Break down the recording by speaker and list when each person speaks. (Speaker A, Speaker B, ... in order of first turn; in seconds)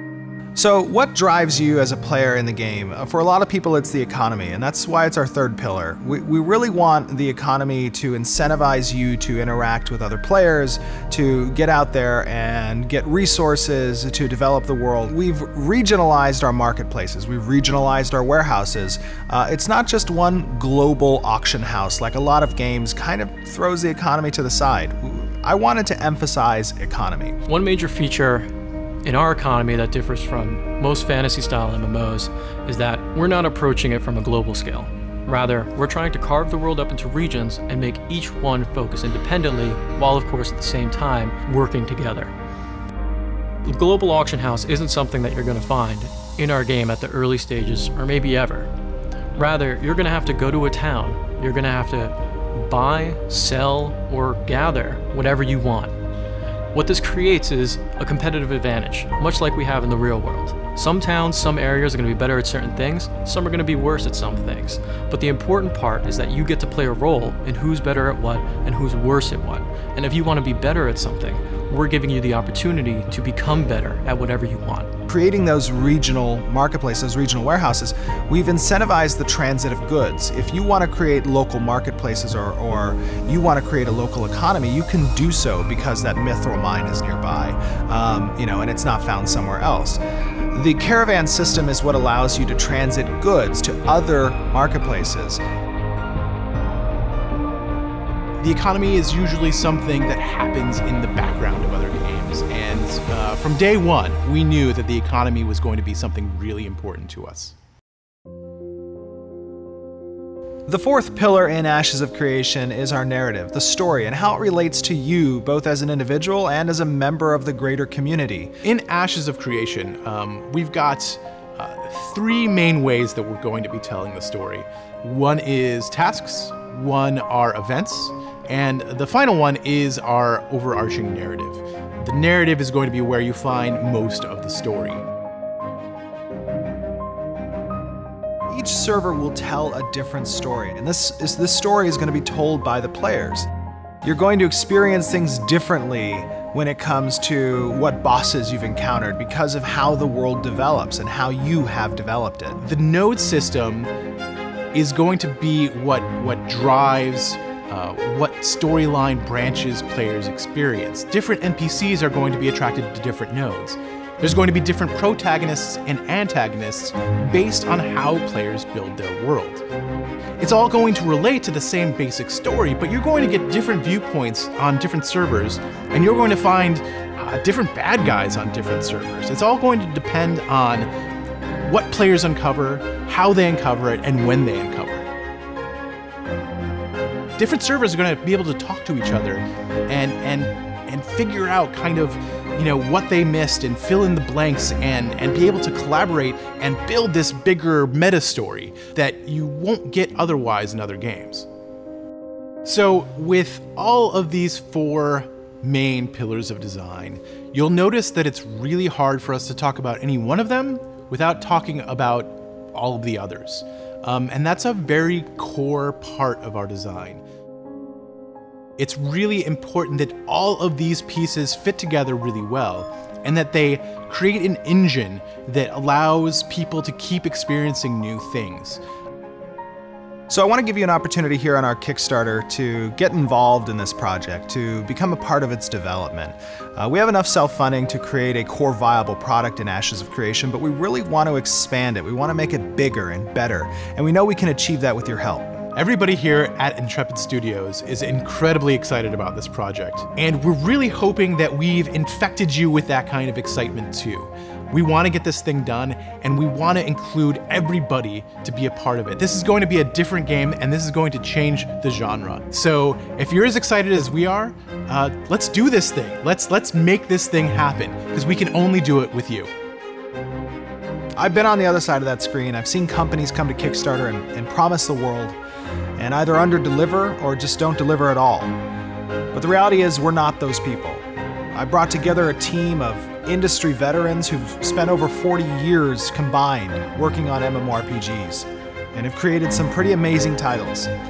Speaker A: 0.6-27.4, 75.1-95.4, 110.7-118.5, 138.5-143.5, 144.0-152.6, 230.3-245.6, 271.2-275.4, 276.0-278.6, 279.3-290.9
Speaker B: 27.5-28.5, 29.1-42.3, 43.6-48.7, 49.4-56.0, 56.7-74.9
Speaker C: 98.4-107.5, 118.6-135.0, 152.6-153.9, 154.7-169.7, 170.4-180.9, 181.6-185.1, 187.4-201.5, 202.7-217.2, 218.8-228.8, 245.7-269.5